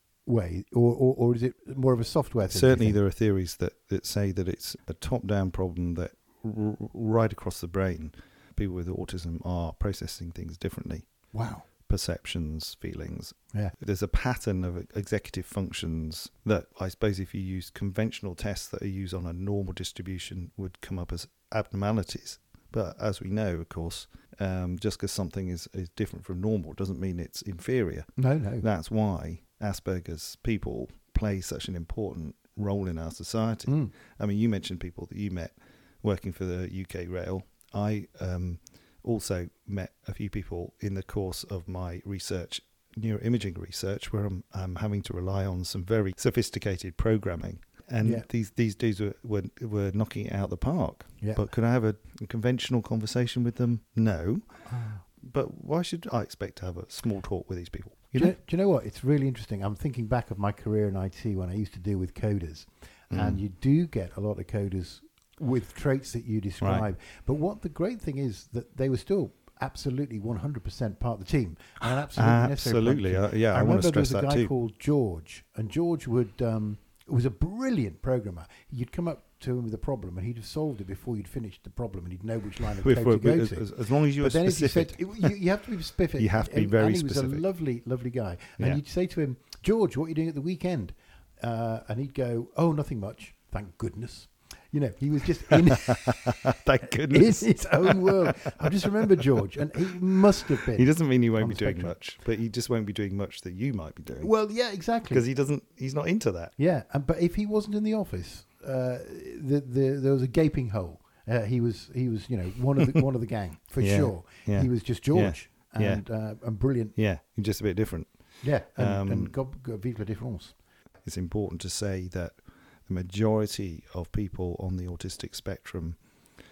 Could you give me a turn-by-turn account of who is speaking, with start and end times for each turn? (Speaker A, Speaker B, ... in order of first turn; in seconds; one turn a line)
Speaker A: 0.2-3.0
Speaker B: 2.5-11.1
Speaker A: 11.3-11.7
Speaker B: 11.8-58.4
Speaker A: 28.2-28.6
Speaker A: 33.7-33.9
Speaker A: 51.2-51.4
Speaker A: 54.6-55.0
Speaker A: 58.1-96.6
Speaker B: 63.1-63.4
Speaker B: 66.6-66.8
Speaker B: 72.1-74.5
Speaker B: 82.8-85.3
Speaker B: 86.2-87.5
Speaker B: 95.9-98.8
Speaker A: 97.1-102.0
Speaker B: 99.5-100.0
Speaker B: 100.6-104.3
Speaker A: 104.2-105.2
Speaker B: 105.1-106.5
Speaker A: 106.6-116.9
Speaker B: 113.8-116.0
Speaker B: 116.9-119.3
Speaker A: 118.4-120.6
Speaker B: 121.0-126.1